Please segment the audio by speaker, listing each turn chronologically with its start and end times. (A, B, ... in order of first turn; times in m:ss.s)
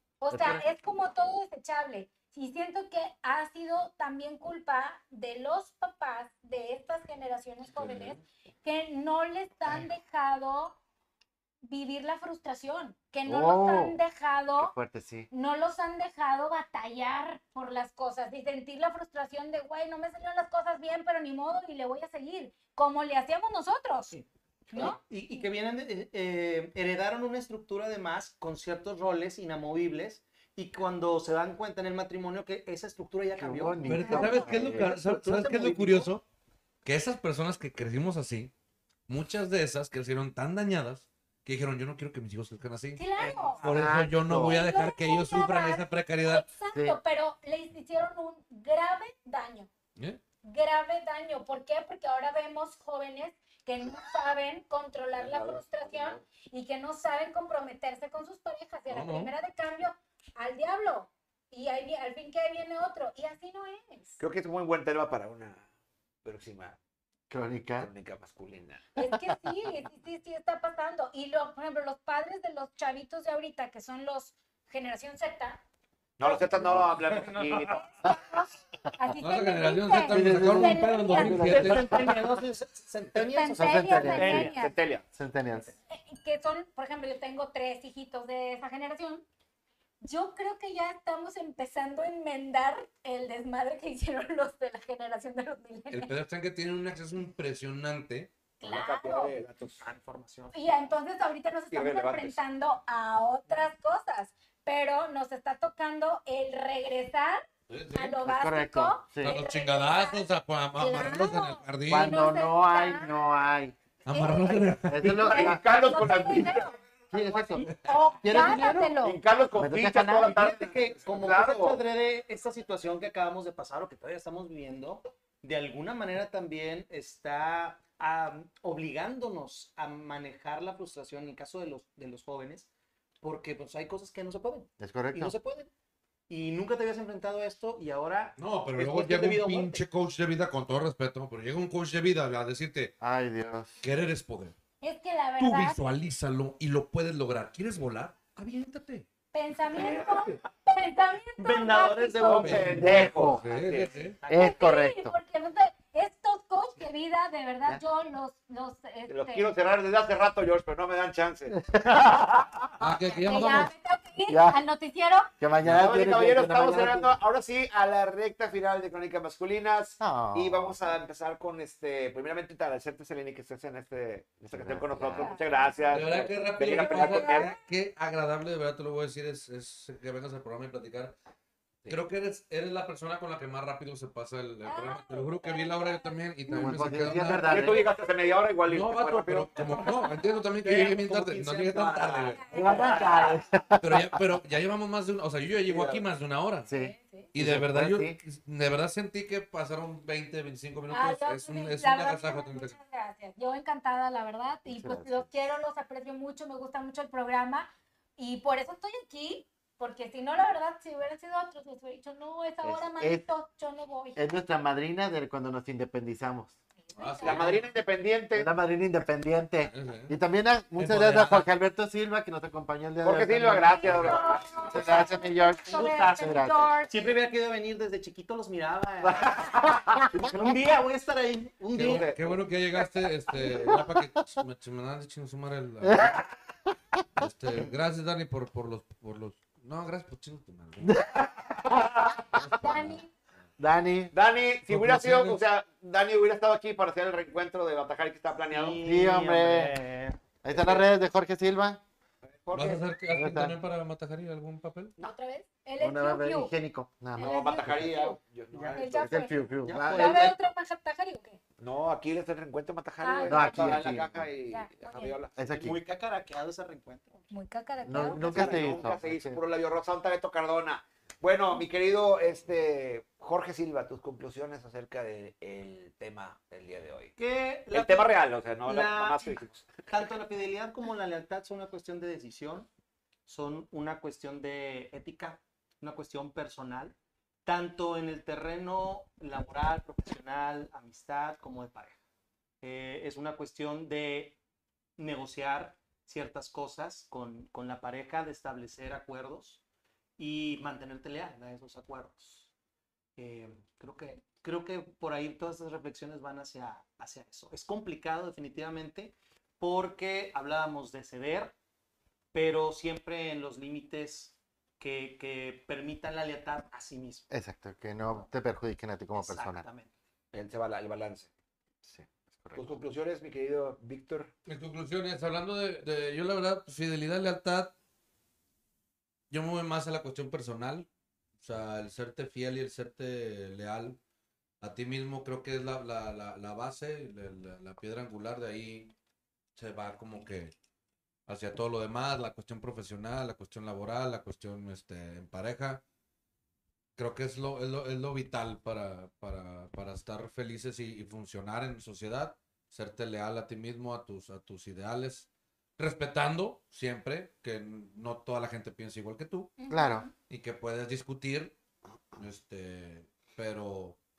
0:00.2-0:10.8 A
0:00.3-0:00.6 B
0:07.8-0:08.2 C
0:11.6-0:14.7 A
0:13.2-0:14.0 B
0:14.6-0:15.3 B
0:15.3-0:24.1 A
0:24.1-0:36.1 D
0:24.7-0:25.0 A
0:33.4-0:34.9 B
0:33.8-0:34.6 A
0:33.8-0:36.2 C
0:36.8-0:38.5 C
0:39.1-0:43.0 C
0:43.0-0:43.6 A
0:43.2-0:43.7 D
0:43.6-0:46.4 C
0:43.6-0:44.6 B
0:44.4-0:49.7 A
0:46.7-0:47.0 B
0:50.4-1:04.2 A
0:55.2-0:56.2 E
0:58.9-0:59.3 C
1:04.2-1:05.6 E
1:06.2-1:06.8 E
1:07.3-1:07.9 B
1:07.8-1:08.8 E
1:08.9-1:15.6 A
1:09.0-1:09.4 B
1:16.2-1:17.9 E
1:16.5-1:16.9 B
1:17.1-1:17.8 D
1:17.7-1:21.5 A
1:19.2-1:22.1 C
1:20.1-1:22.2 B
1:21.2-1:21.7 E
1:21.3-1:24.6 D
1:23.1-1:24.7 A
1:23.6-1:24.5 B
1:24.5-1:25.0 E
1:25.1-1:25.7 B
1:25.9-1:29.2 A
1:30.0-1:36.1 A
1:35.9-1:38.3 C
1:38.6-1:39.4 A
1:38.6-1:39.8 E
1:39.8-1:40.6 D
1:40.5-1:53.2 A
1:41.7-1:42.4 E
1:47.7-1:48.2 C
1:48.2-1:49.4 B
1:49.2-1:52.2 C
1:51.9-1:53.7 B
1:54.0-1:55.3 C
1:54.1-1:54.6 A
1:54.9-1:55.6 B
1:55.0-1:57.6 E
1:55.3-1:56.7 A
1:57.1-1:57.7 B
1:57.7-1:59.2 A
1:58.2-1:58.9 B
1:58.6-2:01.8 E
1:59.6-2:00.4 B
2:00.2-2:12.7 D
2:13.2-2:15.7 D
2:14.8-2:15.3 B
2:16.3-2:19.8 D
2:18.4-2:23.0 C
2:23.0-2:23.8 B
2:23.8-2:24.5 C
2:24.8-2:25.9 A
2:25.4-2:29.0 C
2:29.3-2:32.6 A
2:29.8-2:30.2 D
2:31.4-2:32.9 D
2:32.2-2:34.0 E
2:32.3-2:34.2 C
2:32.8-2:33.4 B
2:33.7-2:34.6 D
2:34.3-2:35.2 B
2:34.3-2:39.5 A
2:39.1-2:42.4 E
2:41.5-2:42.4 B
2:42.8-2:43.7 C
2:43.2-2:45.3 A
2:43.3-2:43.6 B
2:44.3-2:44.6 B
2:45.4-2:47.2 B
2:45.6-2:45.9 C
2:45.7-2:57.5 E
2:50.0-2:51.0 B
2:54.5-2:55.7 B
2:55.1-2:56.0 A
2:55.9-3:01.2 C
2:56.8-2:57.6 A
3:01.8-3:07.6 C
3:04.6-3:06.2 A
3:06.5-3:07.8 B
3:07.1-3:10.0 E
3:08.7-3:12.4 C
3:09.6-3:13.5 D
3:12.3-3:13.4 A
3:12.5-3:14.2 B
3:13.8-3:16.7 C
3:15.7-3:16.0 E
3:16.6-3:18.2 B
3:16.7-3:17.3 A
3:17.3-3:22.8 C
3:20.9-3:34.2 A
3:24.7-3:25.3 B
3:32.6-3:33.2 B
3:34.1-3:36.6 B
3:36.8-3:37.5 A
3:37.0-3:37.7 C
3:37.2-3:38.5 E
3:38.3-3:46.7 B
3:39.6-3:40.2 C
3:40.8-3:41.5 C
3:43.0-3:45.0 E
3:43.6-3:47.0 A
3:45.7-3:52.2 D
3:49.0-3:50.5 E
3:51.7-3:56.2 C
3:51.8-3:52.4 E
3:53.3-3:53.8 B
3:55.8-3:56.2 B
3:57.2-4:01.0 C
4:00.8-4:01.9 B
4:01.4-4:02.7 E
4:02.3-4:03.0 C
4:02.6-4:03.1 A
4:03.6-4:04.1 B
4:04.1-4:08.8 E
4:04.7-4:05.4 C
4:08.5-4:10.2 D
4:08.8-4:09.8 B
4:10.4-4:11.8 B
4:10.5-4:10.8 E
4:12.2-4:12.8 E
4:12.5-4:14.9 C
4:13.1-4:13.6 B
4:15.0-4:16.5 A
4:15.8-4:17.8 B
4:17.2-4:18.2 A
4:17.2-4:19.6 E
4:18.5-4:19.0 D
4:18.7-4:21.4 A
4:19.0-4:20.3 B
4:19.6-4:20.4 D
4:21.6-4:25.7 E
4:23.0-4:23.9 A
4:23.2-4:24.3 B
4:24.5-4:25.1 A
4:25.4-4:25.8 B
4:25.5-4:27.2 D
4:27.3-4:28.6 A
4:27.8-4:29.4 B
4:28.1-4:28.6 D
4:28.2-4:37.1 E
4:37.2-4:39.3 D
4:37.7-4:39.8 E
4:39.9-4:42.7 D
4:43.2-4:52.0 D
4:52.6-4:54.4 D
4:55.0-4:59.6 D
5:00.2-5:02.5 D
5:03.2-5:11.5 D
5:12.3-5:17.2 D
5:17.3-5:19.7 B
5:19.1-5:19.9 D
5:20.3-5:21.3 E
5:21.8-5:22.7 B
5:22.5-5:24.3 E
5:24.4-5:27.7 C
5:29.3-5:30.9 C
5:31.4-5:34.0 C
5:34.6-5:38.9 C
5:39.6-5:40.5 C
5:41.3-5:45.8 C
5:47.0-5:59.5 C
5:59.6-6:00.1 A
5:59.7-6:00.1 B
6:00.3-6:01.6 C
6:02.2-6:04.0 C